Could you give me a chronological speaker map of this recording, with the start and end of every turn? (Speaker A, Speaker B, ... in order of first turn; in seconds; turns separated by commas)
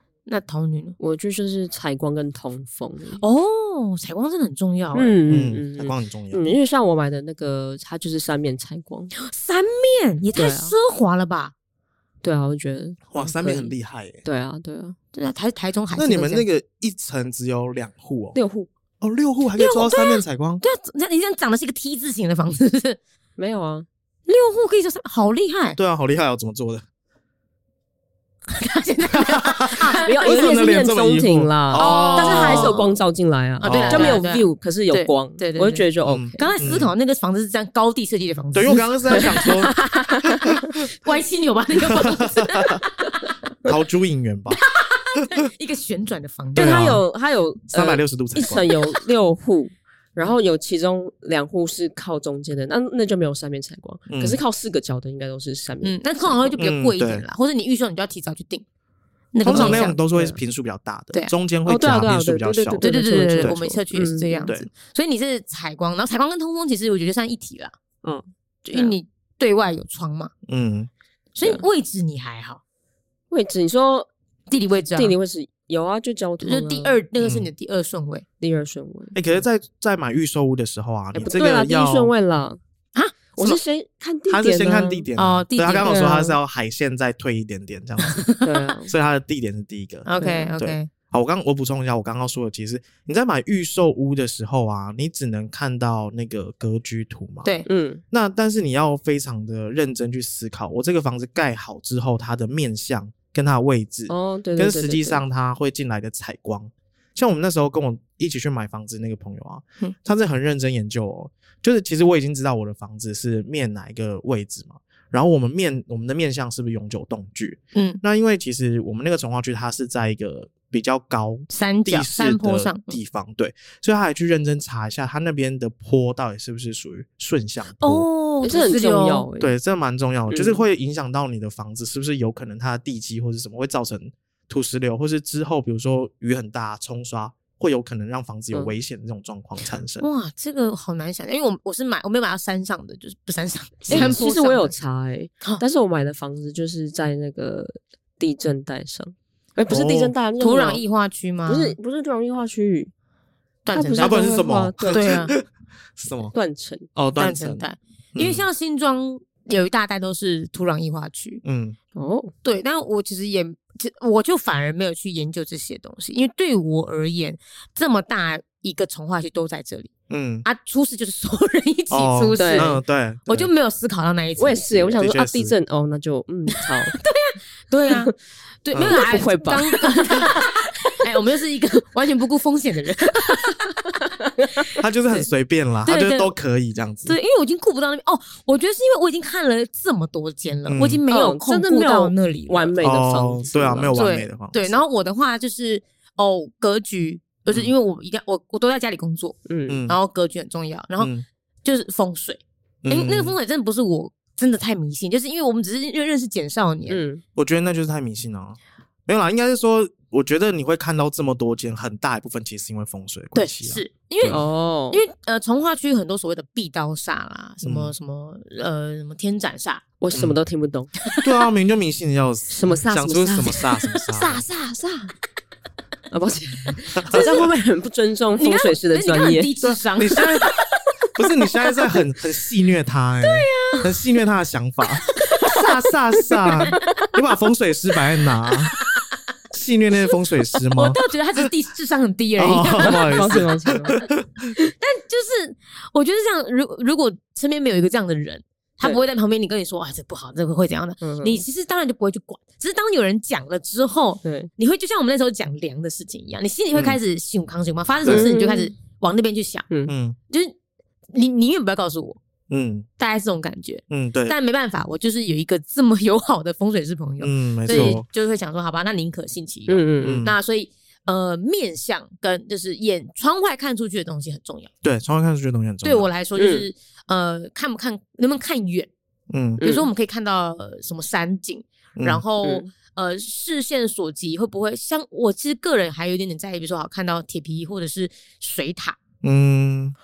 Speaker A: 0.3-1.0, Speaker B: 1.0-3.2, Speaker A: 3.2-5.2, Speaker B: 4.9-9.1, Speaker C: 5.3-6.5, Speaker A: 9.2-11.5, Speaker B: 10.3-10.8, Speaker B: 12.2-13.7, Speaker C: 13.1-14.2, Speaker B: 14.2-15.0, Speaker A: 15.1-16.5, Speaker C: 15.9-18.4, Speaker B: 18.4-18.7, Speaker C: 19.0-20.6, Speaker A: 19.6-23.0, Speaker B: 23.4-23.9, Speaker A: 24.3-25.8, Speaker C: 25.8-26.9, Speaker A: 28.5-30.6, Speaker C: 29.2-32.8, Speaker B: 30.0-36.5, Speaker A: 31.7-33.0, Speaker C: 33.6-34.2, Speaker A: 33.6-43.3, Speaker C: 36.0-36.9, Speaker C: 38.5-39.8, Speaker B: 39.2-39.5, Speaker C: 41.8-42.8, Speaker C: 43.6-44.6, Speaker A: 44.7-46.8, Speaker C: 46.5-47.0, Speaker B: 46.5-56.6, Speaker C: 47.7-48.7, Speaker C: 54.1-54.4, Speaker A: 55.8-58.6, Speaker C: 56.6-57.2, Speaker A: 59.3-60.0, Speaker C: 59.4-62.8, Speaker B: 59.5-60.4, Speaker B: 61.7-64.5, Speaker A: 62.8-67.7, Speaker A: 68.7-70.3, Speaker C: 70.5-70.9, Speaker A: 71.4-72.6, Speaker B: 73.3-74.1, Speaker A: 74.5-75.2, Speaker B: 75.0-77.0, Speaker A: 76.4-78.2, Speaker C: 77.2-77.5, Speaker B: 78.4-79.2, Speaker C: 79.1-82.1, Speaker B: 81.2-82.6, Speaker A: 83.0-83.6, Speaker B: 83.4-85.1, Speaker C: 84.3-88.3, Speaker A: 85.2-86.0, Speaker B: 85.8-86.4, Speaker A: 88.0-88.5, Speaker B: 88.4-88.9, Speaker C: 88.9-97.5, Speaker A: 90.0-90.9, Speaker B: 90.2-90.5, Speaker B: 97.7-98.0, Speaker C: 98.1-128.1, Speaker B: 104.1-105.2, Speaker A: 117.7-118.0, Speaker A: 121.5-123.0, Speaker A: 127.8-129.3, Speaker B: 128.4-129.6, Speaker C: 129.4-140.1, Speaker B: 130.3-130.6, Speaker A: 140.0-144.7, Speaker B: 143.9-150.8, Speaker C: 143.9-144.2, Speaker C: 149.7-150.1, Speaker A: 150.4-151.8, Speaker B: 151.5-152.9, Speaker A: 153.7-154.4, Speaker B: 153.7-155.3, Speaker C: 154.0-155.4, Speaker A: 154.9-155.3, Speaker C: 156.0-156.3, Speaker B: 156.3-156.9, Speaker C: 156.9-157.6, Speaker A: 157.2-161.4, Speaker C: 158.2-158.5, Speaker C: 161.4-161.8, Speaker B: 161.9-162.3, Speaker A: 162.4-169.9, Speaker C: 170.1-170.4, Speaker A: 170.4-175.0, Speaker C: 171.9-173.5, Speaker B: 172.4-172.7, Speaker B: 174.4-177.0, Speaker C: 174.8-175.6, Speaker A: 176.7-178.1, Speaker A: 178.6-184.0, Speaker C: 178.7-179.0, Speaker B: 178.8-180.5, Speaker A: 184.6-185.3, Speaker C: 184.8-187.2, Speaker A: 185.9-186.3, Speaker A: 187.1-192.7, Speaker C: 190.7-191.0, Speaker B: 191.1-194.0, Speaker C: 192.8-194.8, Speaker A: 193.9-199.4, Speaker B: 199.5-199.8, Speaker C: 199.7-200.0, Speaker A: 199.9-201.1, Speaker C: 201.0-201.2, Speaker A: 201.6-207.0, Speaker C: 202.8-203.3, Speaker B: 206.9-207.2, Speaker C: 207.4-214.4, Speaker A: 213.3-219.8, Speaker B: 214.3-215.0, Speaker C: 217.6-217.9, Speaker B: 220.0-220.9, Speaker C: 220.1-220.4, Speaker C: 221.2-224.5, Speaker B: 222.5-225.1, Speaker B: 226.1-229.5, Speaker C: 227.0-227.5, Speaker A: 227.1-227.5, Speaker A: 228.4-230.6, Speaker C: 229.6-230.5, Speaker C: 231.2-238.7, Speaker A: 233.2-233.9, Speaker A: 235.2-235.6, Speaker A: 236.5-236.8, Speaker A: 238.7-239.0, Speaker C: 239.5-241.0, Speaker A: 240.7-244.1, Speaker C: 242.4-244.5, Speaker B: 242.8-244.0, Speaker A: 244.8-259.7, Speaker B: 251.0-251.4, Speaker B: 254.2-254.5, Speaker B: 258.1-258.7, Speaker C: 259.9-260.2, Speaker A: 260.3-260.6, Speaker A: 261.1-262.2, Speaker C: 262.5-262.9, Speaker A: 263.0-274.7, Speaker C: 263.9-264.4, Speaker C: 267.2-268.1, Speaker B: 267.7-268.0, Speaker B: 269.7-270.2, Speaker C: 270.0-270.4, Speaker C: 274.8-276.1, Speaker A: 275.8-278.9, Speaker B: 276.4-276.7, Speaker C: 279.3-279.6, Speaker B: 279.6-279.9, Speaker A: 279.6-289.0, Speaker C: 282.0-282.2, Speaker B: 282.4-282.7, Speaker C: 289.2-289.9